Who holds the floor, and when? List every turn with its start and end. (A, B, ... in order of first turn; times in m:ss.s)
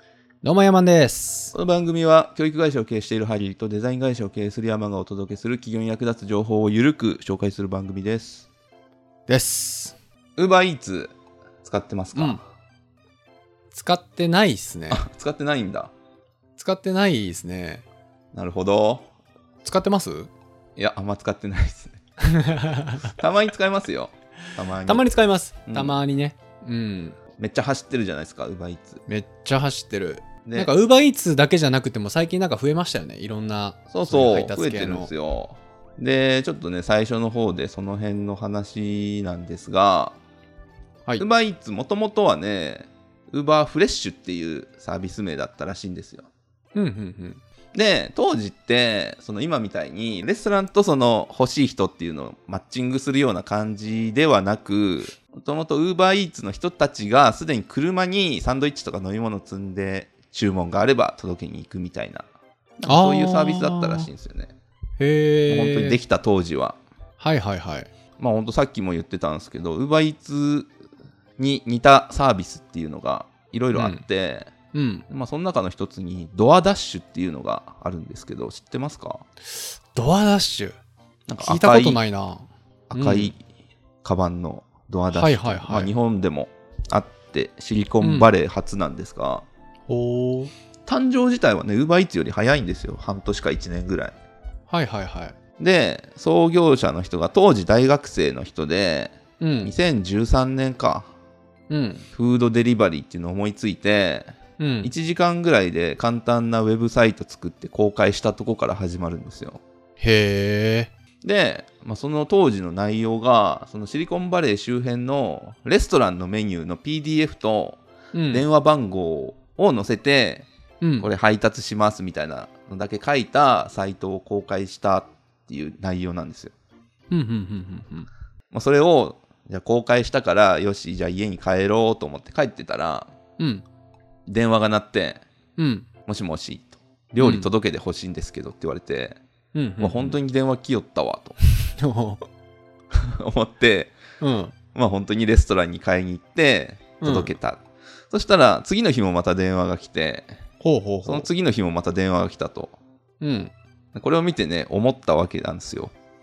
0:00.4-0:01.5 A
0:01.5-0:08.4 B
0:09.3-0:09.9 A
0:10.4-0:11.1 B
0:11.6-0:12.4 B
0:12.1-0:12.4 A
0:13.7-0:15.0 A
0:14.9-0:15.9 B
0:16.6-0:17.8 A
0:18.3-0:19.0 B
0:19.6-0:20.3 A
0:20.8-0:22.0 B
0:22.2-0:23.1 A
0:23.1-0:25.0 B
0:24.8-0:27.2 A
0:25.7-0:26.0 B
0:27.4-0:29.0 B
0:29.1-0:35.1 A
0:30.4-0:30.7 B
0:33.9-0:40.2 B
0:41.2-0:46.3 B
0:46.7-0:47.4 A
0:47.7-1:02.2 B
1:02.8-1:04.5 B
1:02.9-1:04.1 A
1:05.0-1:06.0 A
1:05.5-1:06.8 B
1:07.2-1:07.9 A
1:08.2-1:10.7 B
1:11.4-1:14.5 B
1:13.7-1:14.0 A
1:14.7-1:15.0 A
1:15.1-1:19.2 B
1:19.9-1:20.8 A
1:21.3-1:22.0 B
1:21.4-1:23.3 A
1:22.9-1:23.4 B
1:24.0-1:29.4 B
1:25.1-1:25.9 A
1:28.0-1:28.3 A
1:29.9-1:30.5 A
1:30.8-1:34.2 B
1:34.7-1:35.4 A
1:35.6-1:41.1 B
1:39.4-1:39.7 A
1:41.7-1:42.0 A
1:42.1-1:49.6 B
1:44.6-1:44.9 A
1:50.0-1:50.9 A
1:51.2-2:00.5 B
1:58.1-1:58.4 A
2:00.8-2:01.1 A
2:01.0-2:06.5 B
2:07.1-2:08.1 A
2:08.5-2:13.1 B
2:13.4-2:13.6 A
2:14.3-2:15.2 B
2:15.6-2:15.9 A
2:16.0-2:19.2 B
2:17.2-2:17.5 A
2:19.5-2:20.2 A
2:19.8-2:21.4 B
2:21.7-2:22.2 A
2:22.9-2:23.9 B
2:24.2-2:24.5 A
2:24.7-2:30.4 B
2:27.0-2:27.3 A
2:30.6-2:31.3 A
2:31.0-2:32.7 B
2:33.2-2:33.5 A
2:33.9-2:35.9 B